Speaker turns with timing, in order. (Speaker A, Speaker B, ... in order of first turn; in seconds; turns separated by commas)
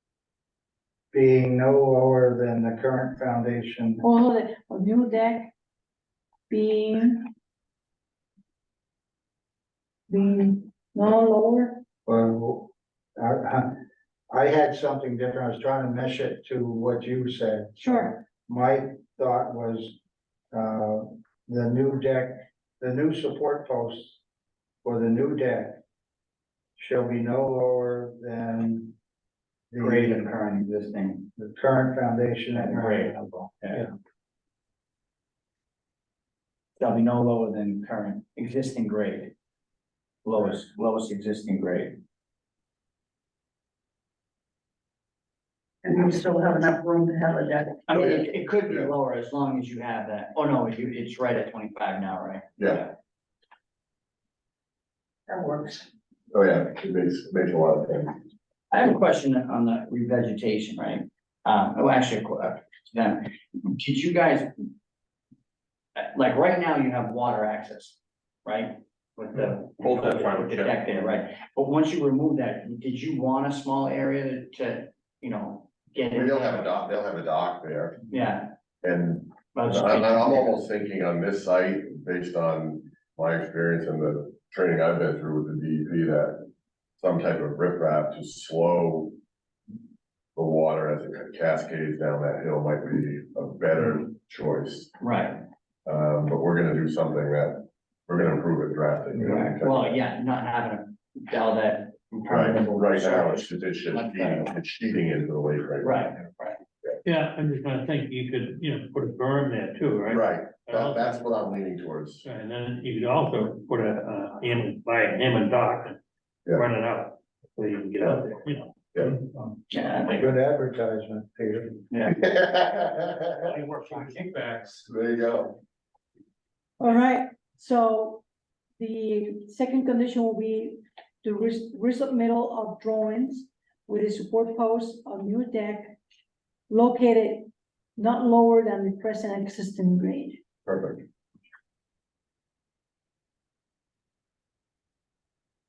Speaker A: 1.1-4.0, Speaker B: 4.0-5.5, Speaker B: 6.5-7.3, Speaker B: 10.1-11.8, Speaker A: 12.1-13.8, Speaker A: 14.3-20.0, Speaker B: 17.8-18.1, Speaker A: 20.5-24.2, Speaker A: 24.8-25.8, Speaker A: 26.8-28.9, Speaker A: 29.7-30.3, Speaker C: 29.8-31.3, Speaker A: 31.4-33.2, Speaker C: 32.5-33.9, Speaker C: 36.8-39.3, Speaker C: 40.2-42.0, Speaker D: 45.8-47.9, Speaker C: 47.9-52.9, Speaker E: 48.0-48.9, Speaker D: 55.3-55.9, Speaker E: 56.3-58.2, Speaker C: 58.7-64.5, Speaker C: 66.0-76.8, Speaker E: 69.8-70.8, Speaker E: 76.1-78.1, Speaker C: 78.1-78.5, Speaker E: 78.8-86.5, Speaker C: 79.5-80.5, Speaker E: 87.0-89.2, Speaker E: 90.4-94.9, Speaker C: 95.0-95.4, Speaker E: 95.9-99.9, Speaker C: 99.2-104.5, Speaker E: 102.3-106.2, Speaker C: 105.8-106.6, Speaker F: 107.0-111.3, Speaker E: 110.1-112.2, Speaker F: 112.2-116.0, Speaker F: 116.5-119.2, Speaker C: 119.7-120.2, Speaker A: 120.1-121.8, Speaker C: 121.9-122.2, Speaker E: 122.2-123.5, Speaker F: 123.4-124.9, Speaker E: 124.9-125.6, Speaker B: 126.8-128.2, Speaker B: 128.8-136.0, Speaker B: 136.7-140.4, Speaker E: 140.7-141.1